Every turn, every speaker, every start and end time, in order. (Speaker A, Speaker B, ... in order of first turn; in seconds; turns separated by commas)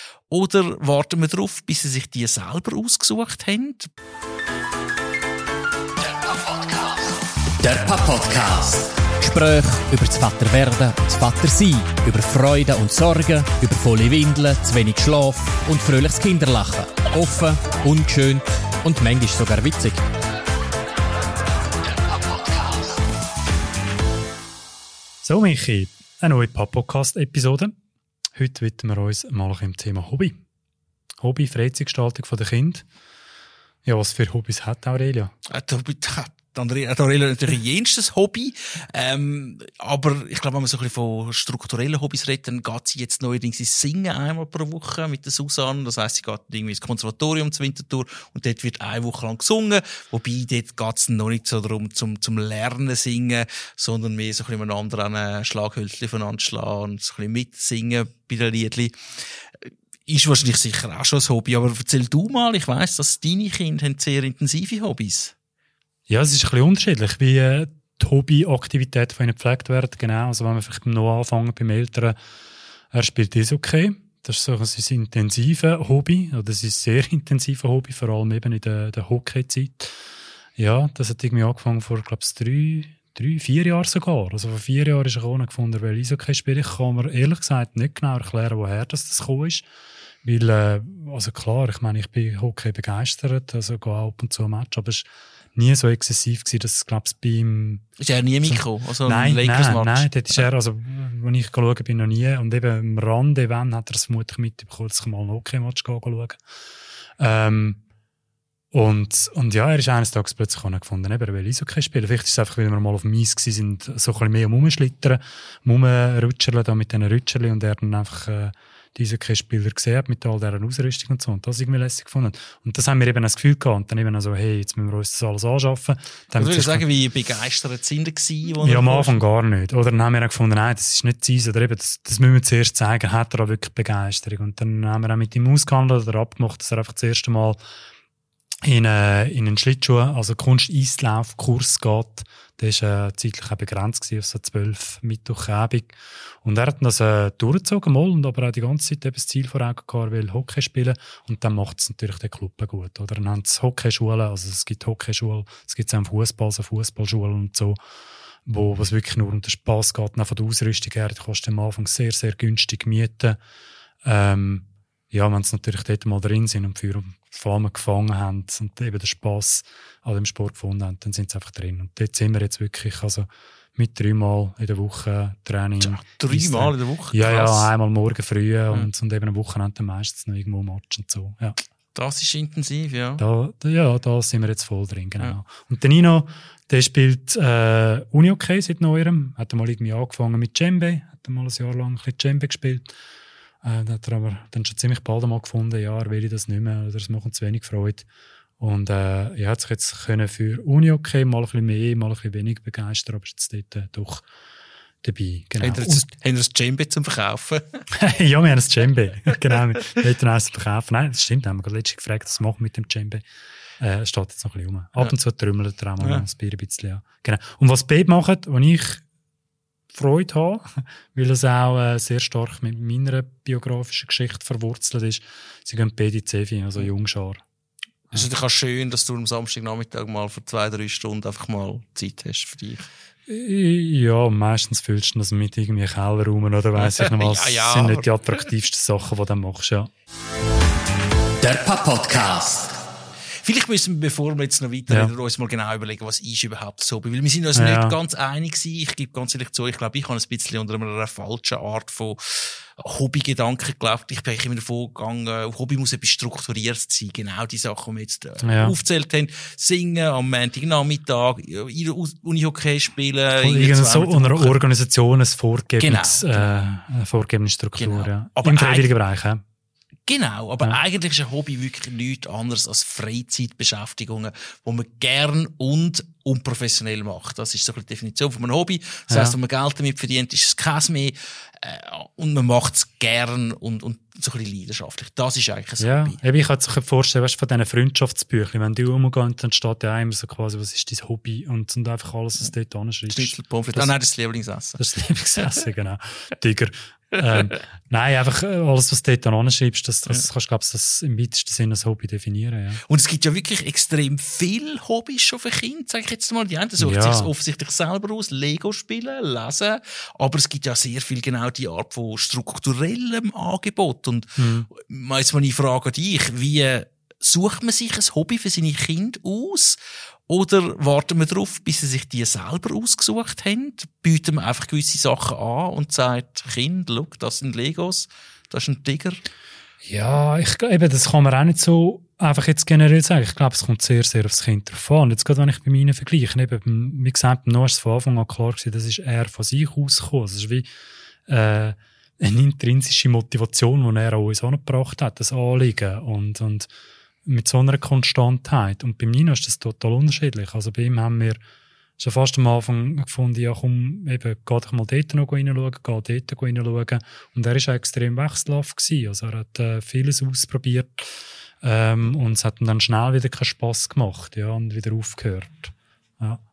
Speaker A: 0.3-3.9, Speaker B: 6.3-6.8, Speaker B: 7.6-20.0, Speaker C: 25.2-27.8, Speaker C: 28.4-30.4, Speaker C: 31.2-32.9, Speaker C: 33.9-35.3, Speaker A: 35.5-59.0, Speaker A: 59.6-65.3, Speaker C: 66.1-72.2, Speaker C: 72.9-80.0, Speaker C: 80.6-89.7, Speaker C: 90.2-97.8, Speaker A: 98.0-100.4, Speaker C: 98.5-106.4, Speaker C: 107.2-107.8, Speaker C: 108.7-126.9, Speaker A: 126.3-129.2, Speaker C: 128.6-137.6, Speaker C: 138.6-157.8, Speaker C: 158.5-163.4, Speaker C: 164.0-181.6, Speaker A: 175.8-177.7, Speaker A: 181.9-183.2, Speaker C: 183.2-192.9, Speaker C: 193.6-198.1, Speaker C: 198.6-204.2, Speaker C: 205.0-206.1, Speaker A: 205.6-207.8, Speaker C: 207.9-213.2, Speaker C: 213.8-219.0, Speaker C: 219.9-227.4, Speaker A: 228.1-232.9, Speaker C: 233.3-239.9, Speaker A: 236.8-238.1, Speaker B: 241.4-242.7, Speaker A: 243.4-264.6, Speaker C: 247.6-247.9, Speaker C: 258.4-258.8, Speaker C: 263.4-269.4, Speaker A: 265.8-266.6, Speaker A: 267.8-268.9, Speaker A: 270.1-286.2, Speaker C: 279.1-279.4, Speaker C: 285.8-293.9, Speaker A: 293.1-294.8, Speaker C: 294.8-302.8, Speaker A: 302.9-329.2, Speaker C: 306.8-307.3, Speaker C: 314.4-314.7, Speaker C: 329.8-340.7, Speaker C: 341.3-346.7, Speaker C: 347.2-351.4, Speaker C: 352.0-366.4